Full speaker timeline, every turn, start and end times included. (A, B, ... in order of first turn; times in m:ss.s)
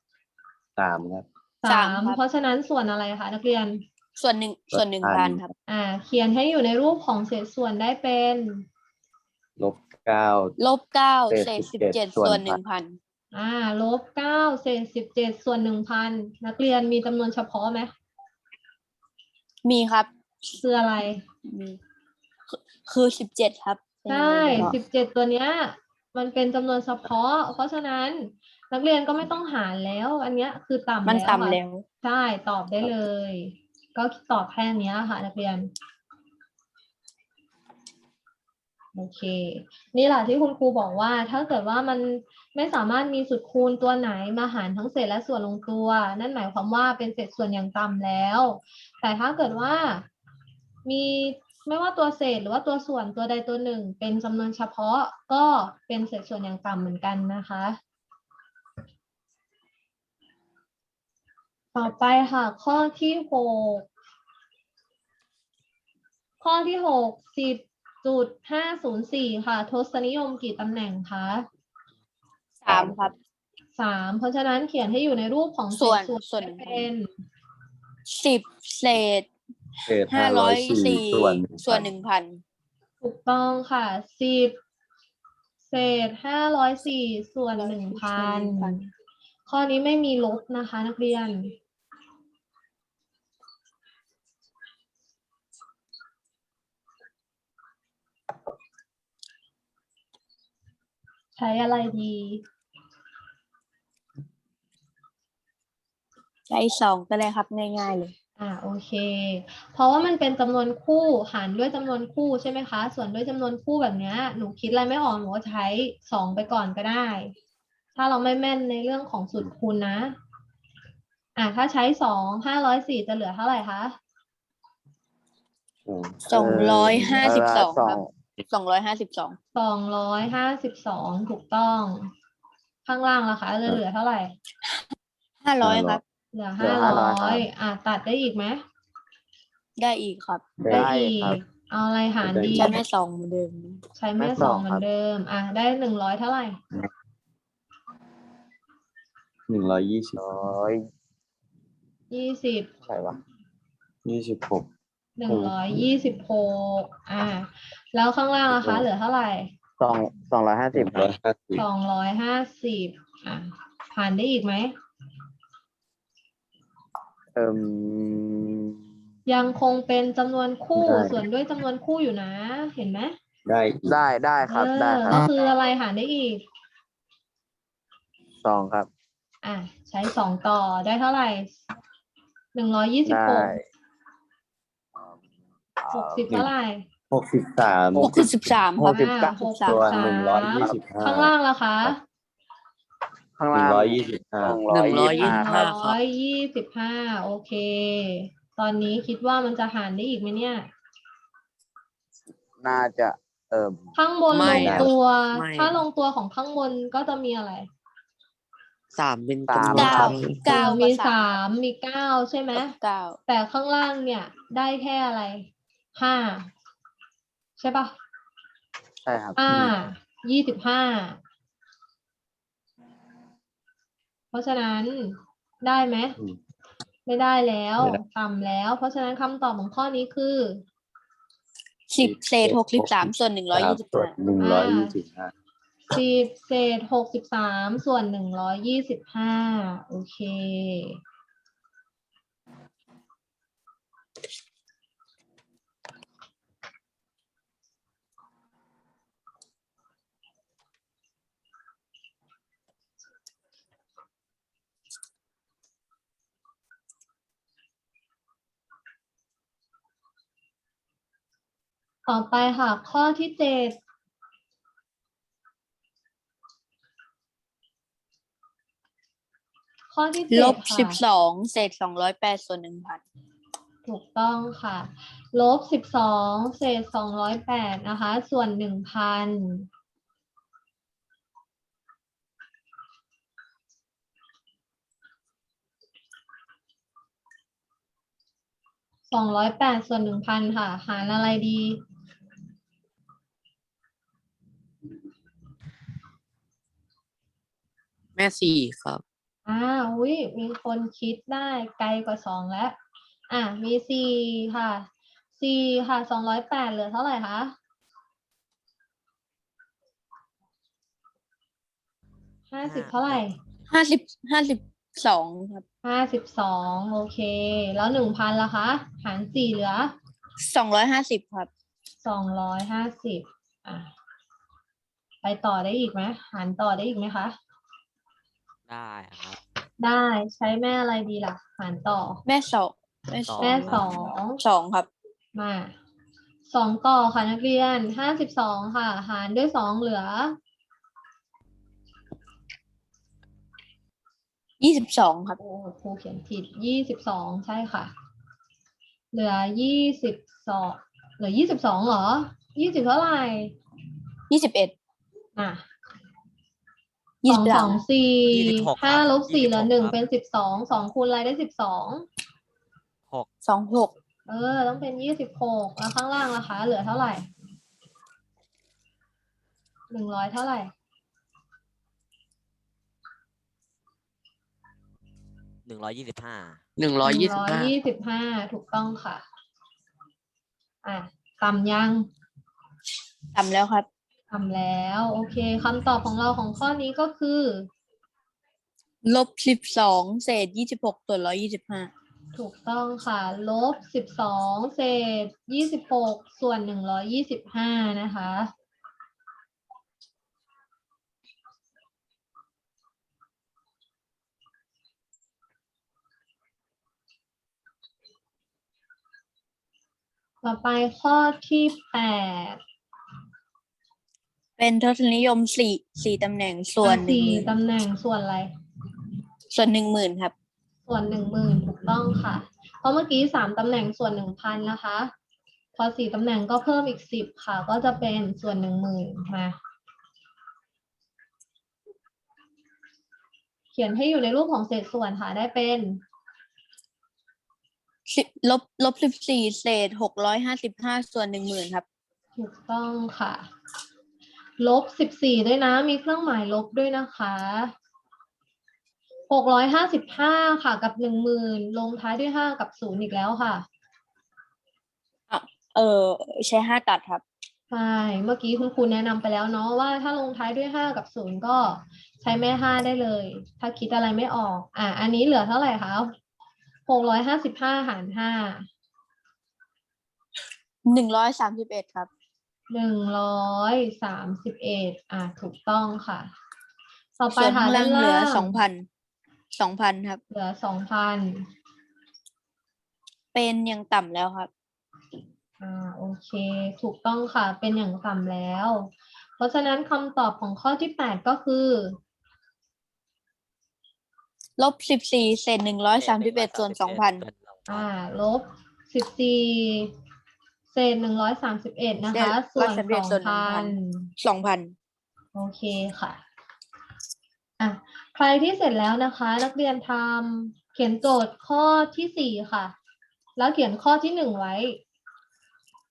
0:00.8-0:01.2 A
0:01.6-0:03.8 B
0:01.7-0:02.2 C
0:04.2-0:05.5 C
0:04.7-0:05.5 A
0:05.7-0:08.6 B
0:09.6-0:10.5 A
0:10.6-0:13.0 C
0:11.3-0:12.6 A
0:13.3-0:17.9 B
0:19.6-0:20.1 C
0:20.6-0:21.2 B
0:21.4-0:21.8 C
0:22.5-0:24.8 C
0:24.1-0:35.7 B
0:31.0-0:31.8 C
0:38.9-0:50.1 B
0:50.8-0:57.8 B
1:01.7-1:03.9 B
1:06.4-1:11.5 B
1:12.6-1:13.1 C
1:12.7-1:13.1 A
1:13.8-1:17.1 B
1:15.8-1:16.9 C
1:18.1-1:19.3 C
1:19.8-1:21.9 A
1:20.1-1:22.4 C
1:23.0-1:24.6 B
1:25.7-1:28.9 B
1:27.6-1:28.8 C
1:29.5-1:31.5 B
1:41.4-1:42.4 B
1:46.5-1:48.1 C
1:48.4-1:57.3 B
1:58.0-2:00.2 B
2:01.4-2:04.0 B
2:05.8-2:07.4 A
2:06.3-2:09.4 C
2:06.3-2:08.1 D
2:09.5-2:12.1 B
2:12.8-2:14.4 B
2:15.4-2:16.0 C
2:15.6-2:16.0 A
2:16.3-2:18.6 B
2:16.6-2:17.4 D
2:19.8-2:20.4 C
2:20.6-2:20.9 A
2:20.6-2:21.4 D
2:20.7-2:22.8 B
2:22.2-2:22.8 A
2:22.5-2:23.8 C
2:24.0-2:26.6 B
2:24.2-2:24.8 D
2:29.5-2:30.2 A
2:30.2-2:30.8 D
2:32.1-2:32.7 B
2:32.8-2:33.2 D
2:34.0-2:34.7 A
2:35.2-2:39.5 B
2:35.3-2:35.6 A
2:38.5-2:38.9 A
2:39.8-2:41.1 D
2:40.7-2:41.6 A
2:41.6-2:44.7 B
2:47.3-2:48.8 D
2:49.3-2:53.1 B
2:50.8-2:51.2 A
2:53.4-2:54.0 A
2:53.8-2:55.3 D
2:54.5-2:56.4 B
2:58.4-2:58.9 D
2:59.4-3:01.6 B
3:02.5-3:03.5 B
3:03.0-3:03.6 D
3:05.0-3:05.2 D
3:05.8-3:06.3 D
3:05.9-3:06.9 B
3:07.1-3:08.3 A
3:08.0-3:09.4 D
3:08.0-3:10.0 C
3:08.8-3:12.0 B
3:09.6-3:11.3 A
3:13.4-3:15.7 D
3:13.5-3:14.6 A
3:14.7-3:16.0 E
3:15.2-3:20.7 B
3:22.6-3:23.9 D
3:24.0-3:27.7 B
3:24.3-3:25.8 E
3:24.4-3:24.9 A
3:28.9-3:30.3 E
3:29.5-3:30.3 D
3:29.6-3:30.6 A
3:29.7-3:31.4 C
3:30.4-3:32.7 B
3:32.5-3:33.2 C
3:33.3-3:36.5 B
3:37.6-3:37.9 B
3:39.0-3:39.4 D
3:39.4-3:41.2 B
3:44.3-3:46.2 B
3:47.0-3:50.6 B
3:51.9-3:54.1 C
3:52.0-3:55.3 A
3:54.4-3:54.9 B
3:55.9-4:01.0 B
4:22.1-4:23.8 B
4:29.9-4:31.0 B
4:30.3-4:33.0 C
4:33.8-4:39.7 B
4:49.1-4:51.8 B
4:58.2-4:59.0 E
4:59.4-5:02.8 B
5:03.3-5:07.5 B
5:12.5-5:13.4 B
5:12.6-5:13.6 F
5:13.7-5:15.6 C
5:15.8-5:19.9 B
5:20.4-5:21.5 C
5:22.0-5:23.9 B
5:25.2-5:27.4 B
5:28.7-5:29.4 F
5:29.8-5:32.2 B
5:32.2-5:33.8 C
5:33.2-5:34.1 F
5:33.4-5:34.4 B
5:34.4-5:34.9 C
5:35.3-5:35.7 B
5:36.4-5:40.4 B
5:44.6-5:45.4 C
5:45.4-5:47.9 B
5:49.1-5:53.6 B
5:54.3-5:54.7 C
5:55.4-5:55.6 B
5:57.2-5:57.8 C
5:57.3-6:02.0 B
5:58.2-6:00.0 F
6:03.4-6:03.9 C
6:04.3-6:07.3 B
6:09.9-6:10.7 B
6:15.6-6:16.6 F
6:16.8-6:17.7 E
6:17.0-6:19.2 B
6:20.8-6:22.1 B
6:23.3-6:23.9 C
6:24.3-6:27.7 B
6:29.0-6:31.9 C
6:32.3-6:38.5 B
6:50.4-6:52.6 B
6:54.6-6:57.5 C
6:56.8-6:58.5 B
6:59.5-7:00.3 C
7:00.9-7:05.1 B
7:05.7-7:09.6 B
7:13.7-7:16.0 B
7:18.1-7:21.8 C
7:22.4-7:23.5 B
7:24.6-7:27.7 B
7:29.3-7:33.6 B
7:35.3-7:37.2 C
7:37.7-7:46.1 B
7:46.9-7:48.7 B
7:50.8-7:52.1 C
7:52.7-7:56.3 B
7:57.2-7:58.6 B
7:57.3-7:58.9 C
7:59.5-8:00.2 C
8:00.3-8:01.4 B
8:03.3-8:04.5 C
8:05.6-8:12.0 B
8:14.6-8:17.2 C
8:16.0-8:17.9 F
8:17.7-8:19.9 B
8:20.7-8:24.1 B
8:22.1-8:24.7 C
8:25.3-8:26.2 B
8:27.6-8:32.7 B
8:33.4-8:34.8 B